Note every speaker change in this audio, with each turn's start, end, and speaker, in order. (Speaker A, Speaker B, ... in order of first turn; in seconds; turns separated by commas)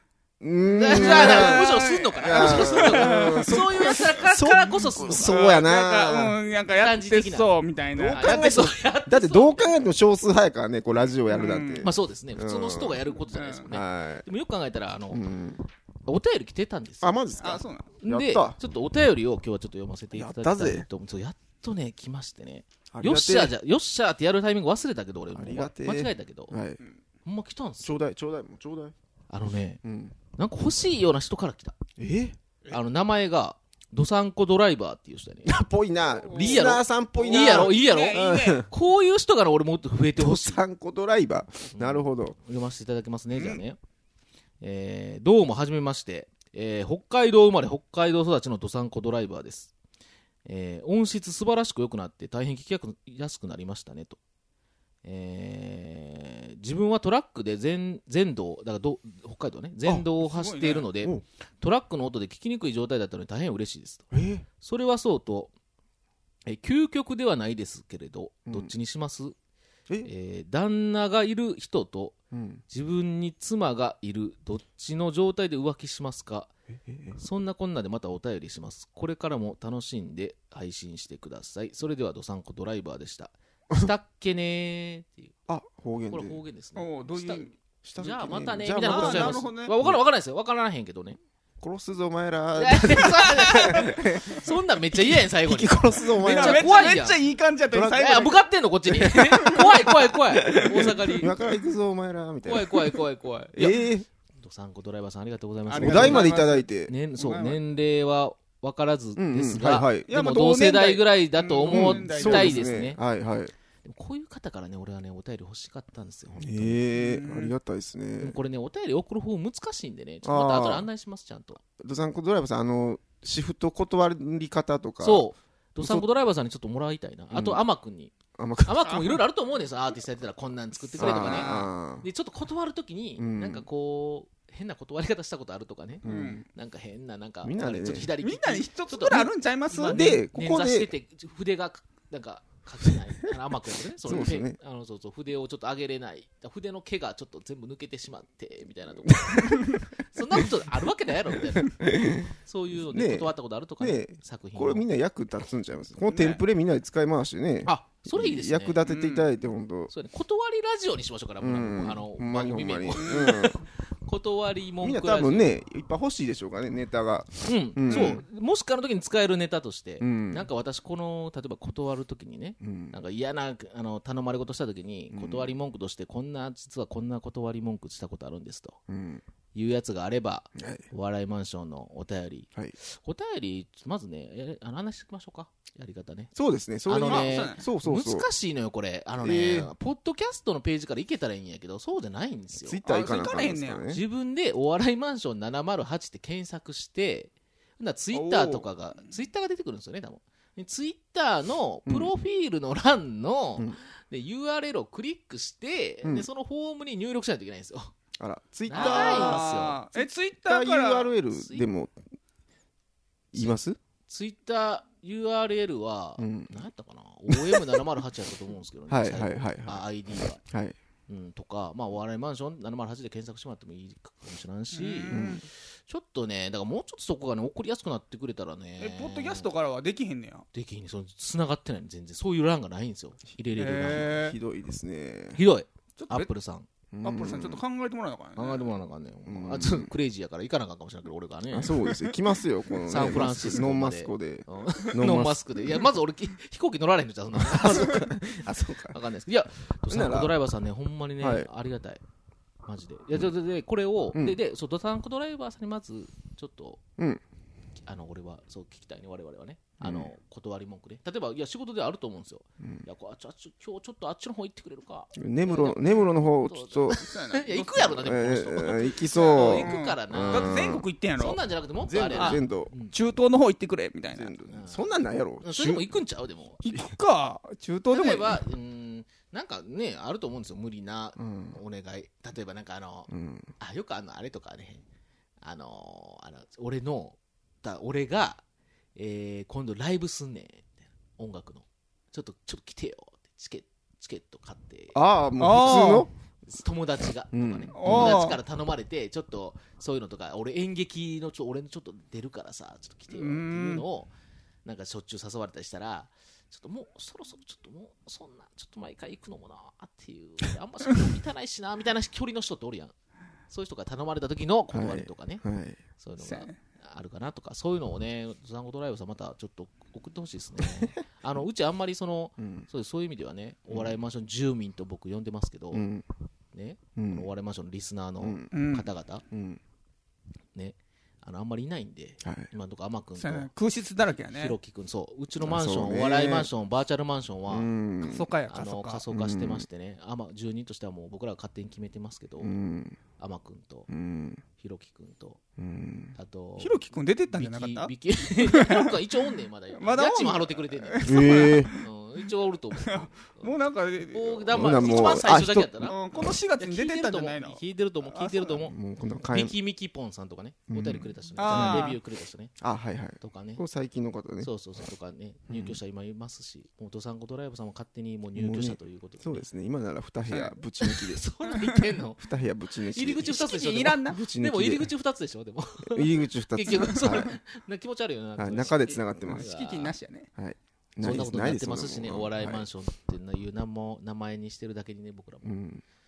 Speaker A: 0.4-6.4, Speaker B: 0.7-5.4, Speaker C: 0.9-4.0, Speaker C: 5.2-8.4, Speaker B: 6.7-7.5, Speaker A: 8.0-13.0, Speaker B: 8.1-9.8, Speaker C: 11.3-11.9, Speaker B: 11.8-15.2, Speaker C: 13.3-13.7, Speaker A: 13.7-14.3, Speaker A: 15.1-15.6, Speaker B: 16.1-17.2, Speaker A: 17.0-18.6, Speaker C: 17.4-17.9, Speaker B: 18.0-26.6, Speaker A: 20.1-20.9, Speaker A: 22.9-23.5, Speaker A: 25.3-26.8, Speaker B: 27.2-28.0, Speaker A: 27.8-28.9, Speaker B: 29.3-29.8, Speaker A: 29.8-30.2, Speaker B: 30.4-31.8, Speaker A: 32.0-32.4, Speaker B: 32.7-35.6, Speaker A: 35.5-38.7, Speaker C: 36.3-38.7, Speaker B: 36.3-40.6, Speaker A: 40.2-42.4, Speaker B: 41.7-43.8, Speaker B: 44.6-49.7, Speaker B: 50.5-54.2, Speaker B: 55.0-64.1, Speaker C: 60.2-60.9, Speaker A: 64.1-64.5, Speaker B: 64.6-65.5, Speaker B: 66.5-69.3, Speaker A: 68.5-68.7, Speaker B: 70.0-72.2, Speaker A: 72.3-72.6, Speaker B: 72.7-76.5, Speaker A: 76.9-77.2, Speaker B: 77.2-85.3, Speaker A: 85.5-86.4, Speaker B: 86.1-91.2, Speaker C: 86.8-87.5, Speaker A: 87.8-90.0, Speaker C: 88.8-89.7, Speaker A: 91.6-97.0, Speaker B: 92.6-97.2, Speaker C: 93.0-93.9, Speaker C: 96.2-98.4, Speaker A: 97.7-98.3, Speaker B: 98.0-101.3, Speaker A: 98.9-103.0, Speaker C: 100.9-101.1, Speaker B: 102.4-103.8, Speaker A: 103.5-104.1, Speaker B: 104.4-113.0, Speaker C: 105.7-107.6, Speaker A: 105.8-106.9, Speaker A: 109.2-110.1, Speaker C: 110.1-112.7, Speaker A: 111.7-113.5, Speaker B: 113.8-116.8, Speaker A: 116.4-118.4, Speaker C: 117.0-117.5, Speaker B: 118.2-121.6, Speaker A: 120.2-120.9, Speaker A: 121.8-125.2, Speaker B: 125.0-154.8, Speaker A: 125.8-126.1, Speaker A: 127.3-127.6, Speaker A: 128.4-129.1, Speaker A: 131.0-132.1, Speaker C: 131.0-131.7, Speaker A: 133.2-133.7, Speaker A: 136.0-136.4, Speaker C: 136.1-136.4, Speaker A: 137.4-138.1, Speaker C: 138.2-140.2, Speaker A: 139.9-140.9, Speaker A: 144.0-144.6, Speaker A: 149.1-149.8, Speaker A: 151.6-152.3, Speaker A: 152.9-159.9, Speaker C: 156.1-156.4, Speaker B: 157.7-158.8, Speaker C: 158.8-159.3, Speaker B: 159.9-165.5, Speaker A: 161.4-163.6, Speaker C: 163.0-163.5, Speaker A: 164.8-168.2, Speaker B: 167.4-178.8, Speaker A: 170.0-170.5, Speaker A: 172.6-172.9, Speaker A: 175.1-175.5, Speaker A: 178.9-179.2, Speaker B: 179.5-186.3, Speaker A: 180.6-180.9, Speaker A: 186.3-188.3, Speaker B: 186.9-192.8, Speaker C: 187.0-187.6, Speaker A: 189.2-189.7, Speaker A: 192.6-194.0, Speaker C: 192.8-193.8, Speaker B: 193.9-207.9, Speaker C: 198.1-198.7, Speaker A: 201.9-202.1, Speaker A: 206.0-206.3, Speaker A: 208.2-209.6, Speaker B: 208.7-209.8, Speaker C: 208.7-211.1, Speaker A: 210.4-211.9, Speaker B: 211.3-211.7, Speaker A: 213.3-213.8, Speaker B: 214.1-220.4, Speaker A: 216.2-216.6, Speaker A: 217.3-217.8, Speaker A: 218.9-220.8, Speaker B: 221.1-229.5, Speaker C: 224.7-225.4, Speaker A: 225.1-225.4, Speaker C: 228.8-230.4, Speaker B: 230.5-234.2, Speaker C: 233.6-234.4, Speaker A: 233.9-235.4, Speaker B: 235.3-236.7, Speaker C: 236.0-236.3, Speaker A: 236.9-237.6, Speaker C: 237.0-238.7, Speaker B: 238.4-241.9, Speaker A: 239.3-239.9, Speaker A: 241.5-245.8, Speaker B: 242.9-252.0, Speaker A: 247.3-249.0, Speaker A: 249.9-250.3, Speaker A: 251.2-251.5, Speaker B: 252.7-256.8, Speaker B: 257.9-272.9, Speaker A: 259.8-260.1, Speaker A: 265.1-267.0, Speaker C: 267.0-267.9, Speaker A: 267.8-270.9, Speaker C: 269.1-271.4, Speaker A: 271.9-272.7, Speaker C: 272.1-274.3, Speaker A: 274.1-275.9, Speaker B: 274.5-276.6, Speaker C: 276.6-278.4, Speaker B: 277.9-284.8, Speaker A: 281.2-281.6, Speaker A: 283.1-283.5, Speaker B: 285.4-288.4, Speaker B: 289.0-295.0, Speaker A: 294.9-296.1, Speaker C: 295.4-296.1, Speaker B: 296.5-304.1, Speaker A: 297.3-298.3, Speaker C: 297.7-298.4, Speaker C: 303.1-303.8, Speaker B: 304.6-312.9, Speaker B: 313.5-315.4, Speaker A: 314.7-315.8, Speaker B: 316.0-325.9, Speaker C: 316.2-316.6, Speaker A: 322.4-322.6, Speaker A: 325.7-326.1, Speaker B: 326.5-329.2, Speaker A: 327.0-327.3, Speaker A: 328.2-328.5, Speaker C: 328.5-328.9, Speaker A: 329.3-329.6, Speaker B: 330.6-333.5, Speaker A: 332.2-332.5, Speaker C: 333.2-334.6, Speaker B: 334.2-337.7, Speaker A: 335.4-336.5, Speaker A: 337.5-338.3, Speaker C: 338.0-339.0, Speaker B: 338.5-342.6, Speaker A: 339.1-339.7, Speaker A: 342.4-343.0, Speaker B: 343.2-343.9, Speaker A: 343.9-344.4, Speaker B: 344.6-345.4, Speaker A: 345.6-346.1, Speaker B: 346.1-353.5, Speaker C: 346.6-349.0, Speaker C: 349.7-351.9, Speaker A: 351.0-351.7, Speaker C: 352.8-355.2, Speaker B: 354.1-356.0, Speaker A: 354.5-356.0, Speaker C: 355.8-358.6, Speaker B: 356.6-362.6, Speaker A: 358.7-359.6, Speaker A: 360.7-362.0, Speaker C: 361.4-362.0, Speaker A: 362.6-364.5, Speaker B: 363.2-363.6, Speaker B: 364.4-369.4, Speaker A: 365.5-365.8, Speaker A: 368.4-371.2, Speaker B: 370.8-372.2, Speaker A: 372.2-373.4, Speaker B: 372.9-379.9, Speaker C: 373.2-374.2, Speaker A: 374.0-374.9, Speaker A: 375.9-377.3, Speaker A: 378.4-379.5, Speaker C: 379.2-380.3, Speaker A: 380.4-382.7, Speaker B: 381.0-385.5, Speaker A: 385.4-385.8